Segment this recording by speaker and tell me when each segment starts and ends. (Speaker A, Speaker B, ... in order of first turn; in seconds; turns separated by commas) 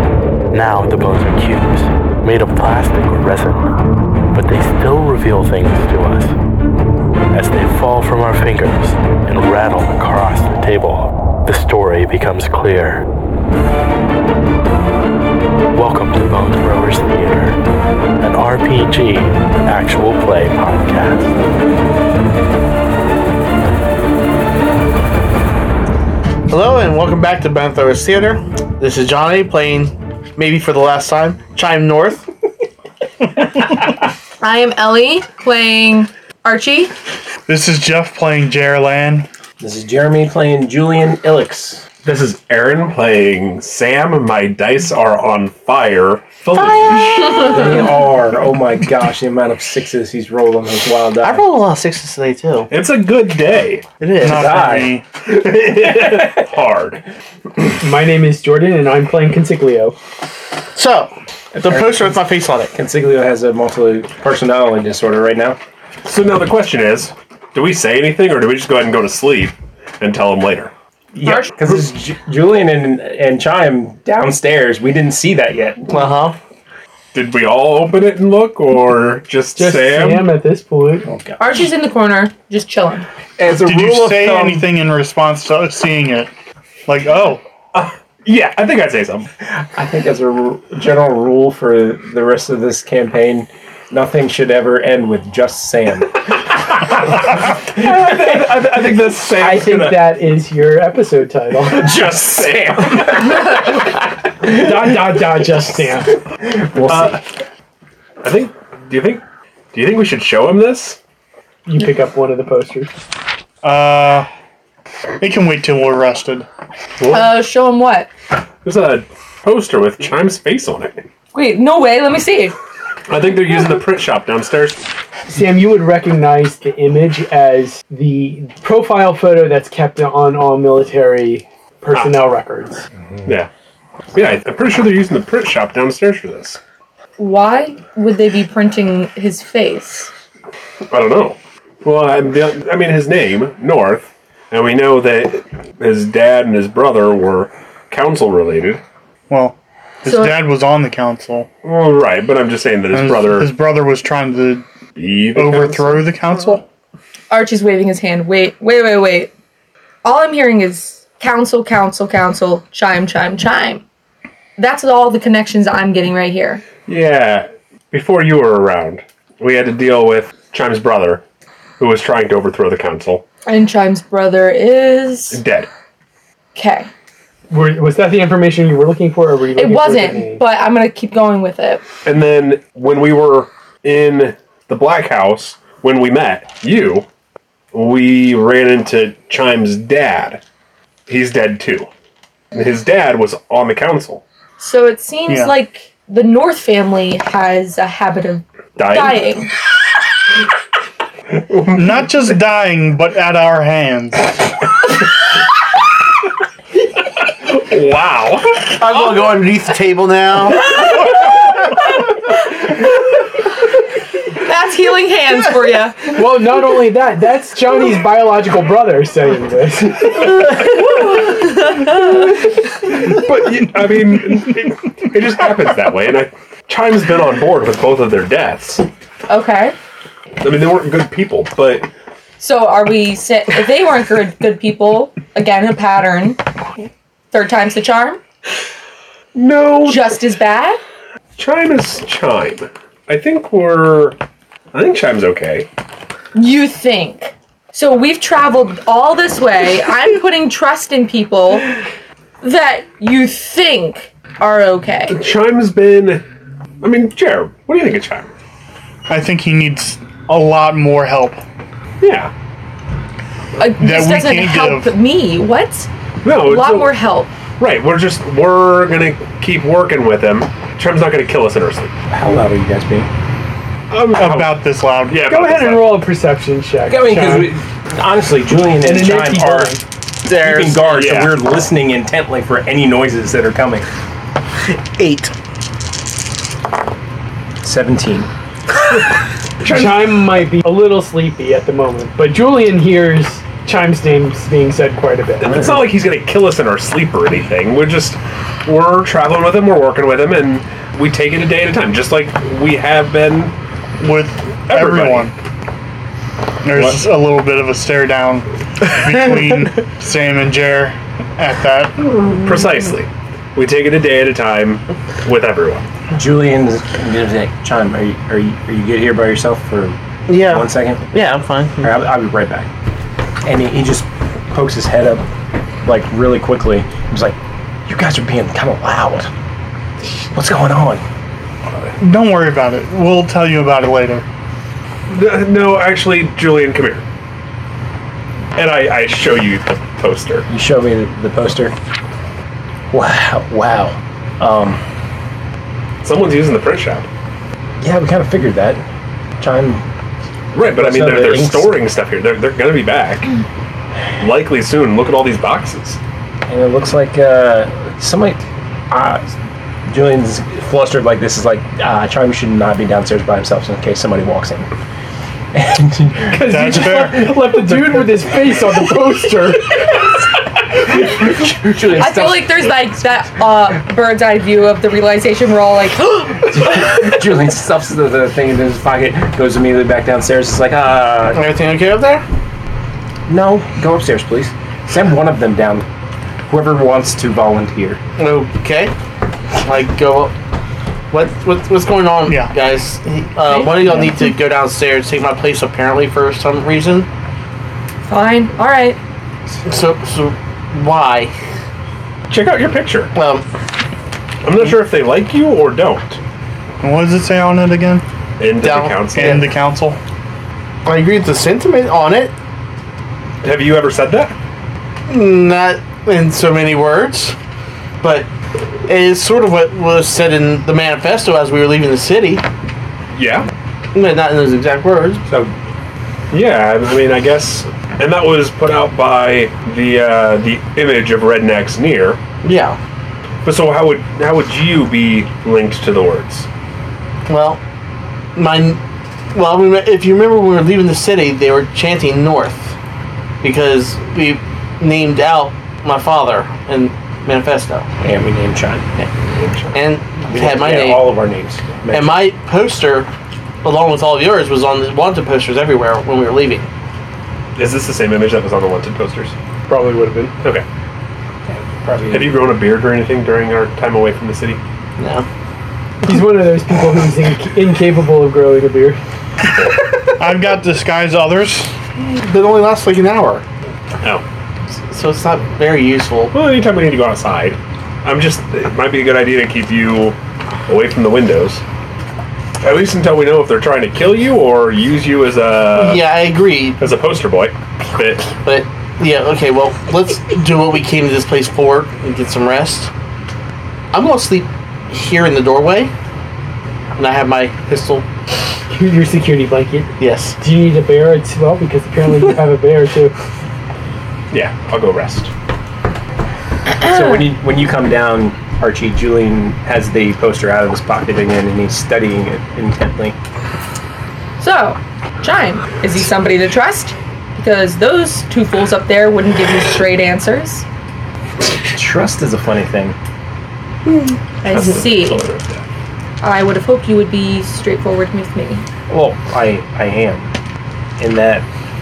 Speaker A: 0.5-3.8, Speaker A: 4.3-6.4, Speaker A: 7.3-13.1, Speaker A: 15.7-17.6, Speaker A: 18.2-21.4, Speaker B: 26.5-32.3, Speaker C: 34.4-36.9, Speaker D: 37.5-39.3, Speaker E: 39.6-41.9, Speaker F: 42.0-47.5, Speaker E: 47.3-51.5, Speaker B: 51.2-52.7, Speaker F: 52.7-53.9, Speaker B: 54.0-54.7, Speaker D: 54.2-55.1, Speaker E: 54.3-56.5, Speaker F: 55.3-57.0, Speaker G: 57.8-60.0, Speaker B: 60.8-62.7, Speaker E: 61.6-65.6, Speaker F: 66.0-70.7, Speaker E: 71.1-76.1, Speaker B: 75.9-76.4, Speaker F: 77.1-80.3, Speaker G: 79.6-81.1, Speaker E: 81.0-81.7, Speaker C: 81.4-83.1, Speaker E: 83.4-84.7, Speaker D: 83.5-86.3, Speaker D: 86.9-87.4, Speaker F: 87.7-89.3, Speaker E: 89.5-96.3, Speaker F: 97.7-99.9, Speaker E: 97.7-100.0, Speaker G: 99.4-101.9, Speaker E: 101.7-103.8, Speaker F: 101.9-103.1, Speaker G: 104.4-106.2, Speaker E: 104.4-105.8, Speaker E: 106.4-107.2, Speaker F: 106.9-107.2, Speaker F: 108.2-111.0, Speaker G: 111.7-112.9, Speaker D: 113.6-114.3, Speaker D: 115.2-116.5, Speaker F: 117.0-117.3, Speaker C: 117.0-118.1, Speaker F: 118.6-121.1, Speaker C: 121.3-122.5, Speaker F: 123.1-124.8, Speaker G: 125.3-132.8, Speaker F: 134.1-136.6, Speaker C: 137.2-140.1, Speaker F: 140.9-148.8, Speaker D: 149.3-151.5, Speaker C: 150.1-150.4, Speaker F: 151.6-153.5, Speaker D: 152.9-154.7, Speaker F: 155.0-156.0, Speaker D: 155.3-156.6, Speaker C: 157.3-159.3, Speaker C: 160.0-163.8, Speaker C: 164.6-166.6, Speaker F: 166.9-171.2, Speaker F: 171.8-173.2, Speaker C: 173.5-175.4, Speaker F: 175.3-175.7, Speaker C: 176.6-176.9, Speaker G: 177.5-180.4, Speaker C: 179.6-181.8, Speaker F: 182.1-187.1, Speaker F: 187.7-190.4, Speaker F: 191.1-191.9, Speaker F: 192.5-194.2, Speaker C: 194.6-199.5, Speaker D: 195.3-195.5, Speaker F: 198.8-199.2, Speaker F: 201.5-202.0, Speaker D: 201.7-204.3, Speaker F: 207.3-208.7, Speaker B: 208.7-210.7, Speaker C: 214.3-216.1, Speaker G: 216.1-220.5, Speaker F: 222.9-228.8, Speaker C: 229.3-229.8, Speaker F: 230.4-231.9, Speaker C: 232.4-236.4, Speaker C: 237.3-238.2, Speaker F: 239.3-240.2, Speaker C: 239.8-240.8, Speaker F: 241.4-244.2, Speaker F: 244.7-245.7, Speaker C: 246.3-251.8, Speaker C: 252.4-255.2, Speaker F: 255.1-256.2, Speaker F: 256.8-258.3, Speaker D: 259.1-261.4, Speaker F: 262.0-262.3, Speaker C: 263.6-265.9, Speaker D: 263.8-264.9, Speaker F: 266.2-266.9, Speaker C: 266.4-267.3, Speaker F: 267.6-271.9, Speaker E: 272.1-273.1, Speaker F: 273.9-276.0, Speaker D: 274.1-275.3, Speaker G: 275.3-277.5, Speaker E: 276.9-283.9, Speaker G: 278.8-279.8, Speaker B: 280.3-281.0, Speaker F: 280.8-281.4, Speaker B: 284.9-285.3, Speaker E: 287.6-288.3, Speaker F: 289.6-290.1, Speaker G: 289.6-295.7, Speaker F: 295.4-303.6, Speaker D: 304.0-305.3, Speaker F: 304.7-305.3, Speaker D: 306.6-312.2, Speaker F: 306.8-307.0, Speaker F: 312.3-315.9, Speaker E: 316.1-321.1, Speaker B: 320.3-321.9, Speaker E: 321.8-322.7, Speaker E: 323.4-325.3, Speaker E: 325.8-329.3, Speaker E: 330.3-331.0, Speaker D: 332.0-334.2, Speaker F: 335.1-337.1, Speaker F: 338.6-340.5, Speaker E: 340.5-341.8, Speaker E: 342.9-344.8, Speaker F: 346.0-347.1, Speaker E: 347.8-348.9, Speaker E: 349.4-349.8, Speaker F: 350.5-353.3, Speaker E: 350.6-351.8, Speaker F: 354.2-356.0, Speaker E: 356.5-364.7, Speaker E: 365.5-368.4, Speaker G: 366.3-369.8, Speaker D: 366.4-367.3, Speaker E: 370.8-372.9, Speaker C: 371.9-376.5, Speaker E: 376.4-381.4, Speaker B: 381.2-382.2, Speaker E: 383.3-385.9, Speaker E: 386.5-388.0, Speaker B: 388.2-388.9, Speaker B: 389.6-390.4, Speaker B: 391.1-397.1, Speaker D: 392.3-392.5, Speaker C: 398.1-399.0, Speaker B: 399.6-401.3, Speaker F: 402.3-403.1, Speaker B: 403.1-403.5, Speaker F: 404.4-406.2, Speaker D: 406.8-408.0, Speaker F: 408.4-409.4, Speaker B: 408.6-409.5, Speaker D: 409.1-410.0, Speaker B: 410.9-412.4, Speaker F: 413.4-414.4, Speaker B: 415.1-417.4, Speaker B: 418.0-418.3, Speaker B: 418.9-422.4, Speaker F: 423.1-423.5, Speaker B: 423.9-425.2, Speaker E: 425.3-425.5, Speaker F: 426.3-432.2, Speaker B: 432.4-432.8, Speaker F: 433.4-436.5, Speaker B: 437.3-437.6, Speaker B: 438.4-438.8, Speaker B: 439.3-442.8, Speaker B: 443.4-447.9, Speaker E: 448.0-448.9, Speaker F: 449.2-449.8, Speaker B: 449.7-451.0, Speaker E: 450.3-452.2, Speaker B: 451.9-453.1, Speaker B: 453.6-456.7, Speaker F: 457.6-459.4, Speaker G: 459.7-460.3, Speaker E: 461.5-462.5, Speaker F: 462.1-464.6, Speaker B: 465.0-465.3, Speaker G: 466.1-469.0, Speaker D: 470.2-471.7, Speaker B: 472.0-473.4, Speaker B: 474.8-476.3, Speaker F: 476.3-481.6, Speaker F: 482.6-486.0, Speaker B: 485.7-486.8, Speaker F: 486.8-488.4, Speaker B: 488.4-492.9, Speaker B: 493.9-495.9, Speaker B: 497.0-498.1, Speaker G: 498.7-503.1, Speaker B: 500.0-500.4, Speaker F: 504.3-505.3, Speaker E: 506.8-513.2, Speaker C: 514.4-520.7, Speaker E: 521.7-523.0, Speaker C: 524.4-525.2, Speaker F: 524.5-525.6, Speaker C: 526.2-528.6, Speaker E: 528.9-530.3, Speaker E: 531.0-531.5